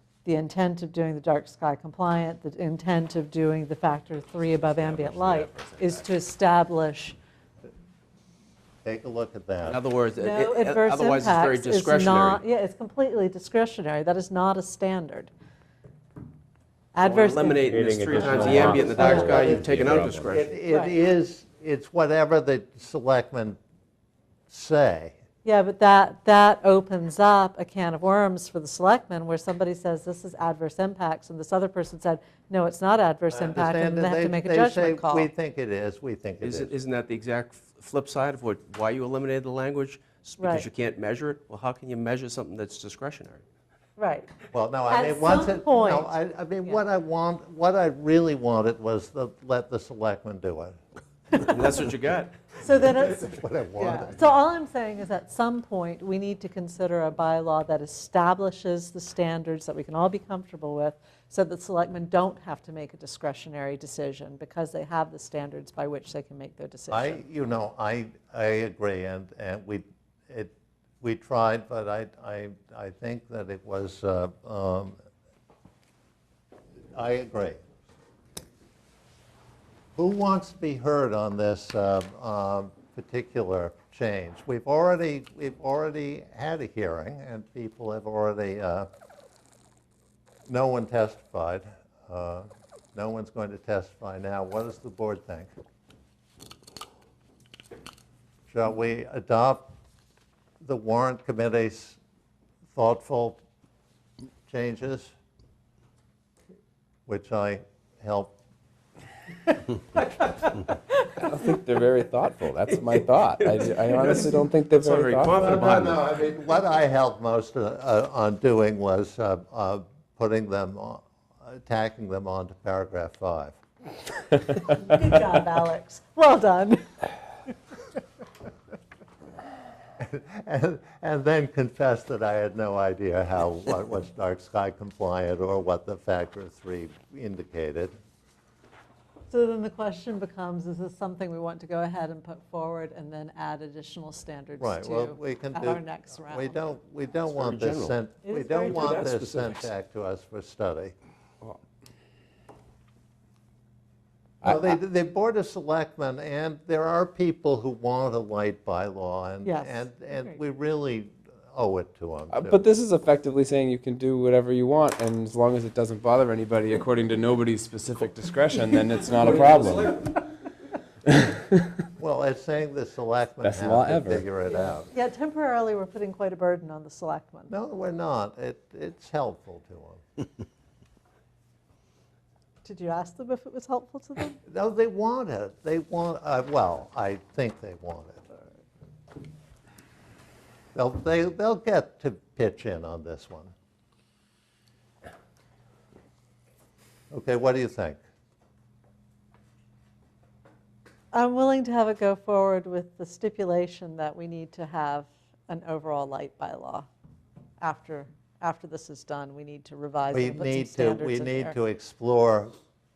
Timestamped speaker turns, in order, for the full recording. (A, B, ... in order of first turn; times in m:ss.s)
0:00.2-0:07.2 A
0:04.8-0:06.0 B
0:08.8-0:09.8 C
0:09.6-0:12.4 B
0:10.2-0:15.3 A
0:16.9-0:19.5 A
0:17.0-0:20.5 B
0:17.6-0:20.4 D
0:19.0-0:23.6 C
0:24.5-0:25.2 C
0:25.4-0:35.3 A
0:33.3-0:36.7 C
0:36.4-0:43.4 B
0:40.4-0:40.6 A
0:44.0-0:44.3 A
0:44.5-0:50.8 C
0:44.9-0:46.1 A
0:51.4-0:52.4 B
0:52.6-1:07.2 A
0:52.7-0:54.2 C
1:06.9-1:15.0 C
1:16.9-1:17.6 C
1:20.0-1:28.9 C
1:30.5-1:35.5 C
1:38.5-1:39.7 C
1:40.6-1:42.0 C
1:42.7-1:43.4 C
1:44.5-1:45.1 C
1:47.1-1:48.4 C
1:51.2-1:55.6 D
1:52.7-1:56.1 B
1:55.4-2:03.6 C
2:04.6-2:06.8 A
2:10.0-2:18.0 C
2:19.3-2:26.6 A
2:24.6-2:30.9 C
2:27.3-2:28.0 B
2:28.2-2:29.0 A
2:28.6-2:29.7 B
2:34.4-2:42.6 C
2:39.4-2:40.4 A
2:42.3-2:50.0 D
2:49.3-2:49.9 B
2:51.1-2:51.6 D
2:52.0-2:54.9 C
2:53.4-2:54.2 D
2:54.9-2:57.5 A
2:57.5-3:00.0 C
3:02.6-3:04.4 A
3:04.4-3:08.3 C
3:10.7-3:13.5 C
3:17.1-3:18.0 C
3:21.1-3:26.9 A
3:27.6-3:31.6 A
3:30.1-3:32.5 C